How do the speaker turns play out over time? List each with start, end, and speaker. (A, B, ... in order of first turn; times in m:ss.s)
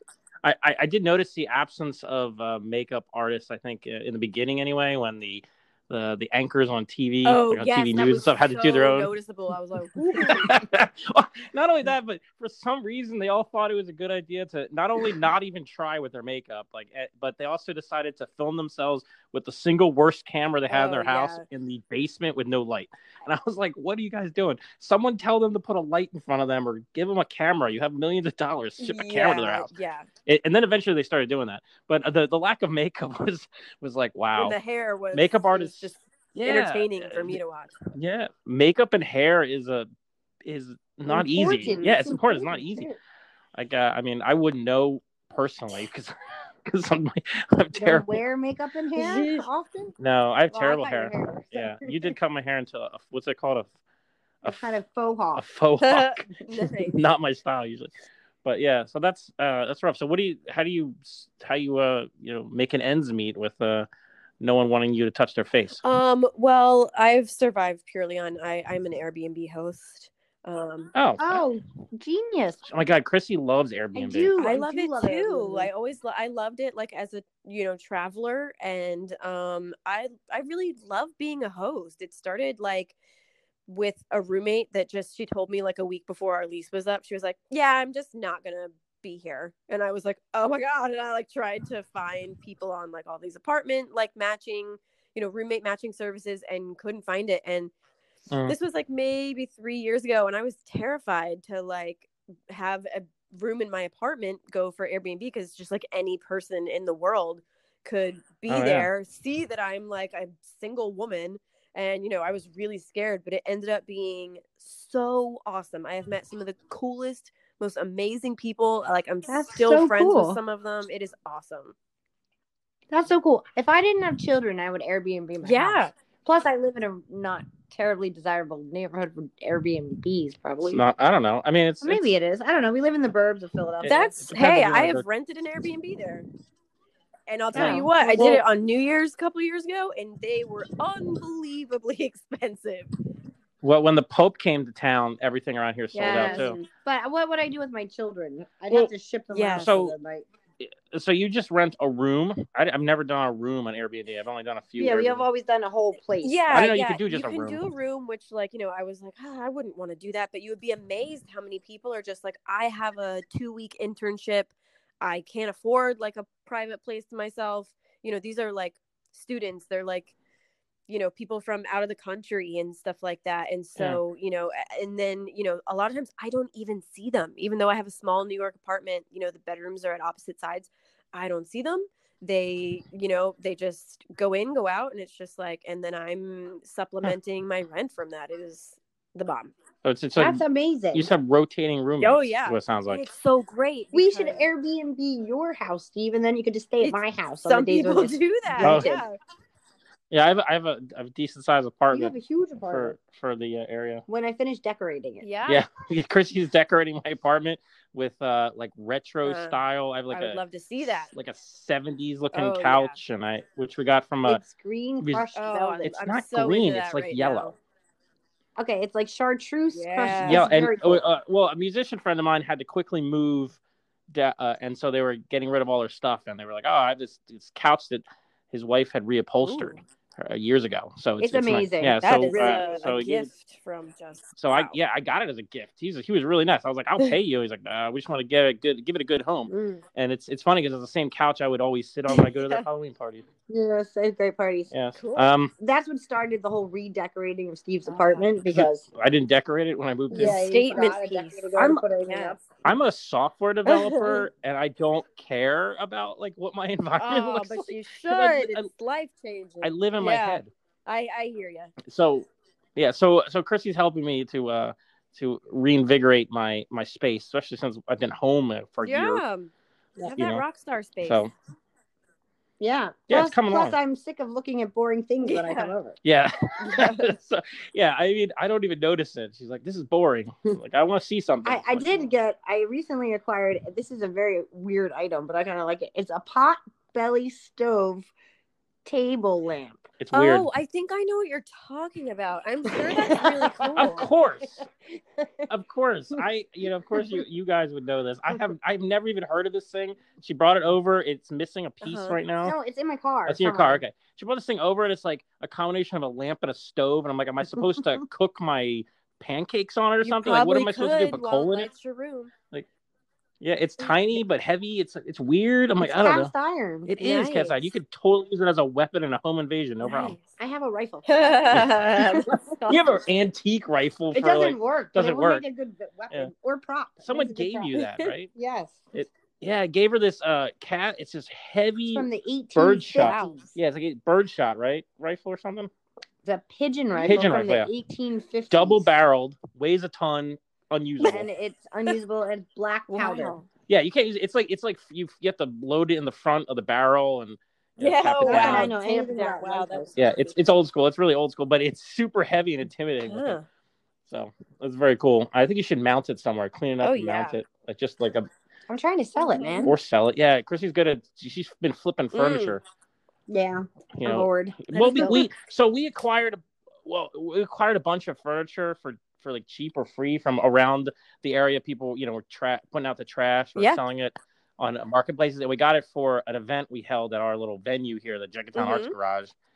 0:00.4-0:09.1 A
0:07.2-0:10.6 B
0:10.2-0:29.7 A
0:20.7-0:21.4 B
0:28.8-0:30.1 B
0:30.3-0:34.6 A
0:34.4-0:37.8 B
0:35.1-0:37.4 A
0:37.9-0:39.9 A
0:40.4-0:42.9 A
0:41.1-0:43.0 C
0:43.6-0:46.1 A
0:46.6-0:48.2 A
0:47.7-0:49.9 C
0:49.0-0:49.5 B
0:50.0-0:53.7 A
0:50.5-0:51.1 B
0:50.8-0:51.9 C
0:54.4-0:54.8 A
0:54.5-0:55.4 C
0:55.4-0:57.9 A
0:55.8-0:57.0 B
0:58.4-1:03.9 A
1:04.4-1:05.8 A
1:05.8-1:10.9 B
1:11.0-1:11.4 A
1:11.2-1:12.6 C
1:12.7-1:14.4 A
1:13.9-1:15.7 C
1:14.4-1:23.0 B
1:23.7-1:37.7 B
1:38.3-1:38.6 A
1:38.5-2:01.8 B
1:48.5-1:48.9 A
1:59.3-2:00.4 C
2:02.9-2:10.8 C
2:05.4-2:05.9 B
2:10.7-2:12.1 A
2:11.8-2:14.1 C
2:13.8-2:15.0 A
2:13.8-2:16.3 B
2:17.3-2:22.9 B
2:17.5-2:18.4 C
2:17.5-2:17.9 A
2:23.6-2:26.6 A
2:25.9-2:26.7 B
2:26.0-2:30.3 C
2:29.3-2:29.7 B
2:29.6-2:29.9 A
2:30.6-2:35.3 A
2:34.8-2:36.4 C
2:36.2-2:50.1 B
2:36.5-2:37.6 A
2:50.9-3:09.5 B
3:09.8-3:13.0 A
3:10.2-3:11.1 C
3:12.0-3:14.4 B
3:13.9-3:19.1 C
3:16.8-3:19.2 B
3:18.6-3:18.9 A
3:20.1-3:24.0 A
3:21.9-3:23.0 C
3:24.1-3:25.2 C
3:25.2-3:25.6 B
3:25.5-3:30.4 A
3:29.2-3:31.1 B
3:31.0-3:34.4 A
3:32.3-3:33.0 B
3:34.2-3:35.9 C
3:35.0-3:35.3 A
3:35.4-3:37.6 B
3:35.8-3:37.5 A
3:38.6-3:41.0 C
3:39.7-3:40.5 B
3:40.2-3:43.6 A
3:44.1-3:53.3 A
3:49.4-3:49.8 B
3:51.2-3:53.1 C
3:52.0-3:54.8 B
3:54.4-4:03.2 A
3:59.5-3:59.8 B
4:02.1-4:02.6 B
4:03.5-4:04.7 C
4:04.7-4:05.5 A
4:05.0-4:05.3 B
4:05.6-4:08.8 C
4:07.9-4:08.3 B
4:08.5-4:10.4 A
4:10.1-4:12.4 C
4:10.1-4:12.4 B
4:12.6-4:18.7 A
4:13.7-4:14.3 B
4:17.0-4:21.7 B
4:19.6-4:20.5 A
4:21.8-4:29.2 A
4:28.8-4:31.2 B
4:30.0-4:30.4 A
4:31.0-4:31.3 A
4:32.6-4:36.0 C
4:33.1-4:33.8 A
4:35.2-4:35.7 B
4:36.0-4:42.1 A
4:36.6-4:37.1 B
4:41.4-4:48.1 C
4:48.8-4:49.9 C
4:50.0-4:50.5 A
4:50.1-4:54.1 B
4:52.7-4:53.9 C
4:53.8-4:54.7 A
4:55.5-5:02.6 A
5:01.8-5:02.2 B
5:02.4-5:03.8 C
5:03.3-5:11.7 A
5:10.0-5:12.3 B
5:13.4-5:16.3 A
5:15.8-5:16.9 C
5:16.9-5:20.2 A
5:17.0-5:17.7 B
5:19.8-5:20.3 B
5:20.4-5:22.5 C
5:21.1-5:23.0 B
5:21.5-5:21.8 A
5:22.7-5:25.4 A
5:24.1-5:27.7 C
5:27.0-5:28.3 A
5:27.8-5:28.1 B
5:28.4-5:28.9 C
5:28.9-5:35.7 A
5:31.9-5:33.5 C
5:33.0-5:33.3 B
5:36.2-5:38.8 C
5:36.9-5:37.5 B
5:37.0-5:37.7 A
5:38.5-5:41.3 A
5:41.0-5:43.4 C
5:42.9-5:43.5 B
5:43.7-5:48.7 A
5:47.8-5:50.2 B
5:48.2-5:49.9 C
5:50.0-5:53.4 A
5:53.0-5:53.4 B
5:54.1-5:58.3 A
5:56.8-5:57.4 B
5:58.7-5:59.7 C
5:59.2-5:59.8 B
5:59.6-6:02.6 A
6:02.1-6:02.6 B
6:03.3-6:05.2 C
6:04.0-6:19.3 A
6:04.7-6:05.3 B
6:18.6-6:19.0 B